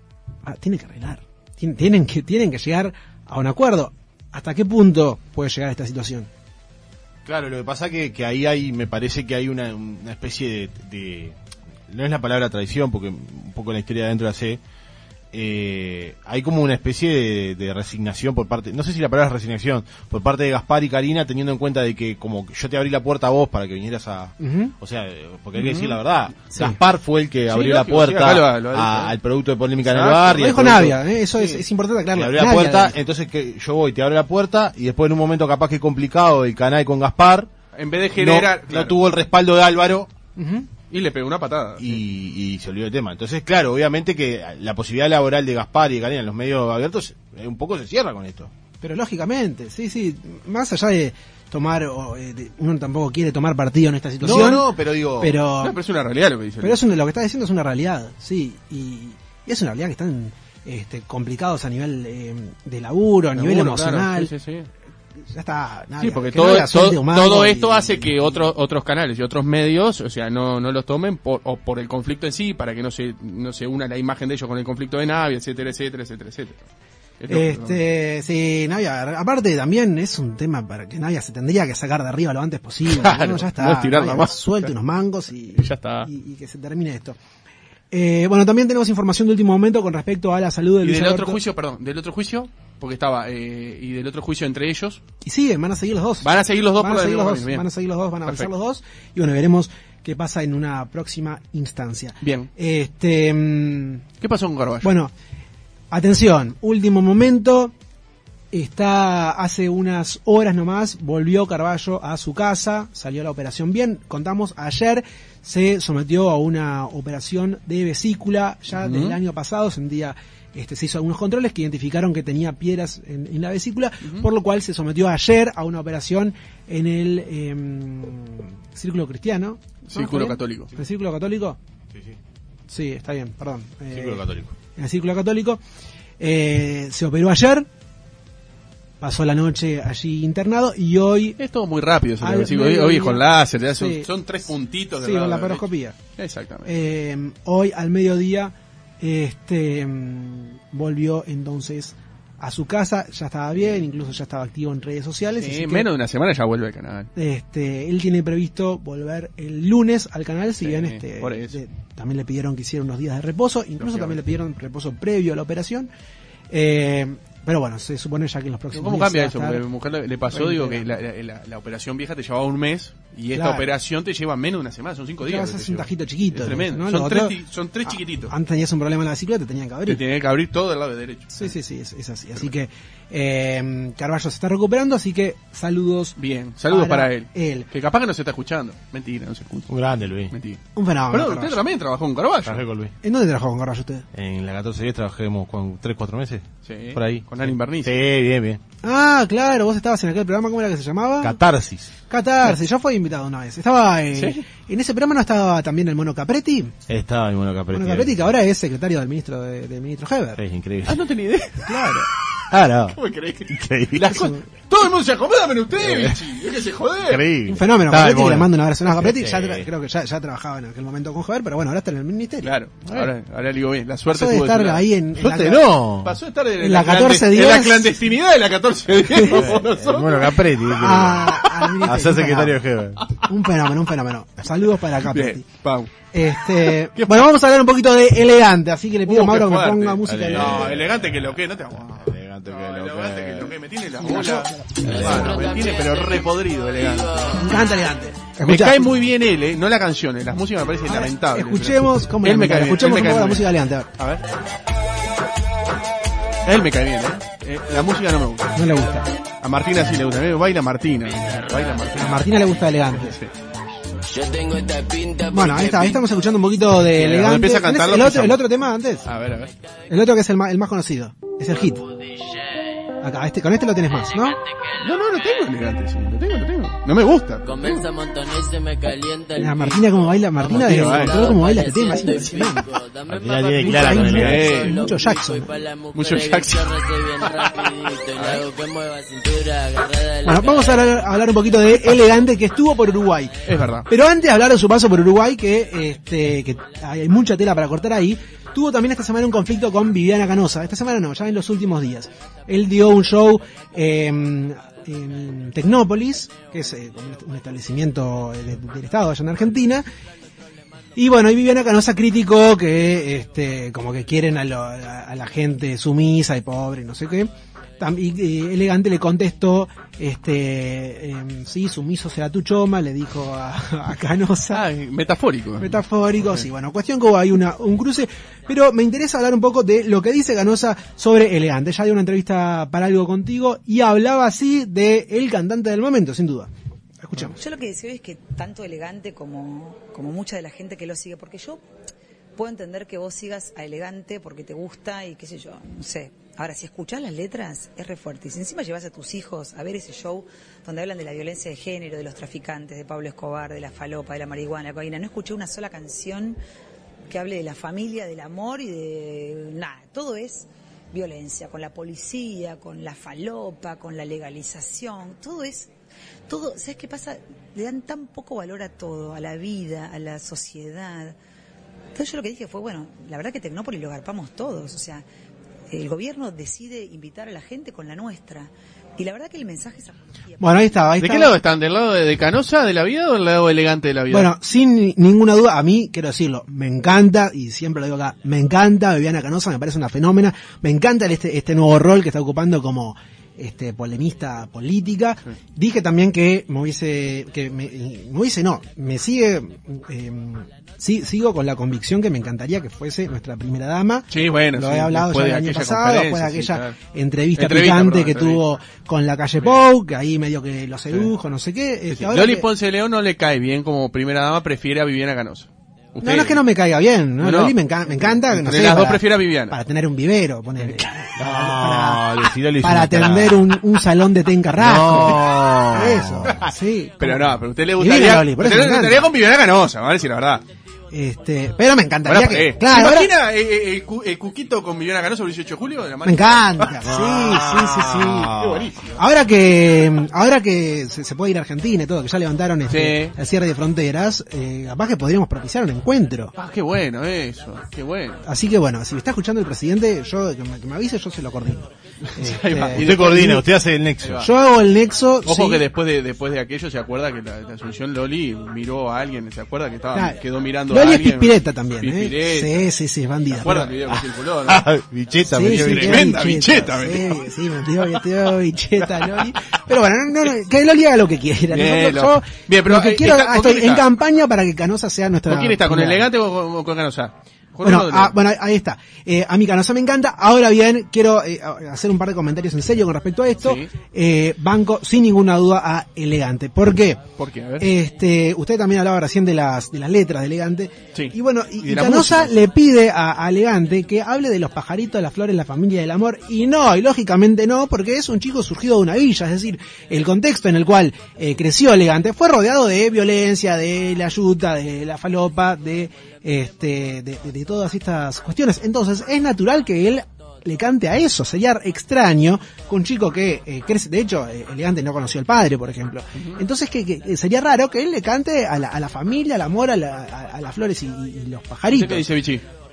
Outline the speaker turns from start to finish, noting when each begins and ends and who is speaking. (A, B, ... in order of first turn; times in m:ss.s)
0:00.5-0:06.3 A
0:07.2-0:11.4 B
0:11.9-0:14.6 B
0:15.3-0:31.0 B
0:24.4-0:24.7 A
0:25.6-0:26.0 C
0:27.5-0:29.1 C
0:29.8-0:30.4 C
0:30.3-0:33.0 A
0:31.3-0:31.6 C
0:32.1-0:37.5 B
0:37.7-0:39.0 C
0:38.2-0:40.1 B
0:40.4-0:40.7 A
0:40.9-0:42.0 C
0:41.8-0:48.5 B
0:48.8-0:54.7 A
0:54.2-0:55.3 B
0:54.3-0:54.6 C
0:55.2-0:55.8 A
0:55.6-0:56.8 C
0:56.6-1:04.3 A
1:03.4-1:04.7 C
1:05.3-1:08.5 A
1:06.0-1:16.6 C
1:17.2-1:17.8 C
1:17.3-1:27.2 A
1:22.9-1:24.7 C
1:25.6-1:26.1 C
1:27.9-1:31.4 A
1:30.8-1:35.0 C
1:35.2-1:44.0 A
1:36.2-1:37.7 C
1:42.2-1:42.5 C
1:44.2-1:44.9 C
1:44.8-1:45.1 A
1:45.9-1:47.7 A
1:48.5-2:11.6 A
1:58.8-1:59.2 C
2:09.9-2:10.7 C
2:11.9-2:12.2 B
2:12.7-2:14.2 A
2:13.9-2:14.5 B
2:14.8-2:15.6 A
2:16.2-2:17.7 A
2:19.0-2:21.4 A
2:21.4-2:26.7 C
2:22.2-2:24.1 A
2:25.0-2:26.0 A
2:26.7-2:35.9 A
2:35.4-2:37.1 C
2:37.2-2:45.9 A
2:40.6-2:41.6 C
2:43.8-2:44.2 C
2:46.5-2:49.6 A
2:48.7-2:58.3 C
2:50.3-2:50.9 A
2:53.3-2:53.7 A
2:55.2-3:00.0 A
2:59.9-3:01.5 C
3:01.3-3:06.2 A
3:06.2-3:09.7 C
3:06.7-3:07.7 A
3:09.7-3:10.4 B
3:10.3-3:12.6 C
3:10.8-3:11.6 A
3:12.5-3:12.9 B
3:13.0-3:14.1 A
3:14.1-3:18.6 B
3:16.6-3:18.0 C
3:18.8-3:21.4 A
3:21.2-3:21.9 B
3:22.1-3:26.8 A
3:24.1-3:24.4 C
3:26.9-3:28.3 B
3:27.7-3:30.4 A
3:30.4-3:31.0 B
3:30.8-3:32.1 C
3:31.6-3:32.0 A
3:32.5-3:33.0 B
3:32.9-3:37.2 C
3:33.5-3:34.2 B
3:34.1-3:34.4 A
3:35.8-3:36.2 B
3:37.0-3:39.7 B
3:37.5-3:42.5 A
3:42.4-3:44.8 C
3:44.1-3:45.6 A
3:45.2-3:46.2 B
3:46.0-3:50.4 C
3:46.6-3:47.9 A
3:49.1-3:49.6 A
3:49.3-3:53.0 B
3:50.7-3:52.6 A
3:53.2-3:55.4 A
3:55.0-3:55.9 C
3:56.1-4:00.8 A
3:57.0-3:57.3 C
3:59.1-4:07.2 C
4:00.1-4:03.6 B
4:04.0-4:05.0 A
4:04.9-4:05.4 B
4:04.9-4:07.7 D
4:07.4-4:08.9 A
4:08.4-4:14.2 C
4:10.9-4:13.9 A
4:16.4-4:18.6 C
4:18.5-4:19.1 A
4:19.4-4:22.3 C
4:21.9-4:23.2 A
4:22.9-4:23.3 C
4:24.0-4:26.0 D
4:25.3-4:29.1 A
4:26.9-4:28.5 C
4:29.0-4:29.5 C
4:29.9-4:31.8 A
4:31.8-4:32.7 D
4:33.0-4:34.4 A
4:34.1-4:34.9 D
4:34.8-4:37.8 C
4:37.4-4:51.1 D
4:39.4-4:42.7 A
4:40.5-4:41.3 C
4:43.1-4:44.6 B
4:43.6-4:45.6 A
4:44.0-4:44.8 C
4:45.9-4:46.7 C
4:48.2-4:48.4 C
4:50.2-5:09.9 A
4:53.5-4:53.9 C
5:11.0-5:24.6 A
5:24.5-5:25.8 C
5:25.6-5:36.5 A
5:37.0-5:37.4 A
5:37.4-5:41.6 E
5:42.4-5:56.4 E
5:57.1-6:05.7 E
6:06.3-6:11.2 E
6:11.9-6:15.0 E
6:15.7-6:20.6 E
6:20.4-6:21.3 A
6:21.0-6:24.3 C
6:24.1-6:52.5 A
6:44.1-6:46.8 C
6:47.4-6:48.4 C
6:51.9-6:56.4 C
6:56.0-7:09.1 A
6:57.2-6:59.6 C
7:01.2-7:03.6 B
7:04.6-7:06.5 B
7:07.0-7:10.4 C
7:10.9-7:13.1 A
7:12.1-7:16.8 C
7:16.0-7:18.3 A
7:16.9-7:18.8 B
7:18.4-7:19.0 C
7:19.0-7:26.3 A
7:22.7-7:23.1 C
7:26.4-7:28.2 C
7:28.2-7:33.4 A
7:32.1-7:33.4 C
7:32.8-7:34.3 B
7:34.0-7:34.3 C
7:34.2-7:35.6 A
7:35.3-7:42.7 C
7:39.9-7:43.8 A
7:43.4-7:44.7 C
7:43.9-7:46.1 B
7:45.3-7:56.0 A
7:45.4-7:47.3 C
7:51.5-7:53.8 C
7:55.3-7:58.2 C
7:57.6-8:07.0 A
8:03.4-8:03.7 C
8:07.2-8:07.7 C
8:07.6-8:42.1 A
8:11.0-8:12.4 C
8:41.7-8:42.4 C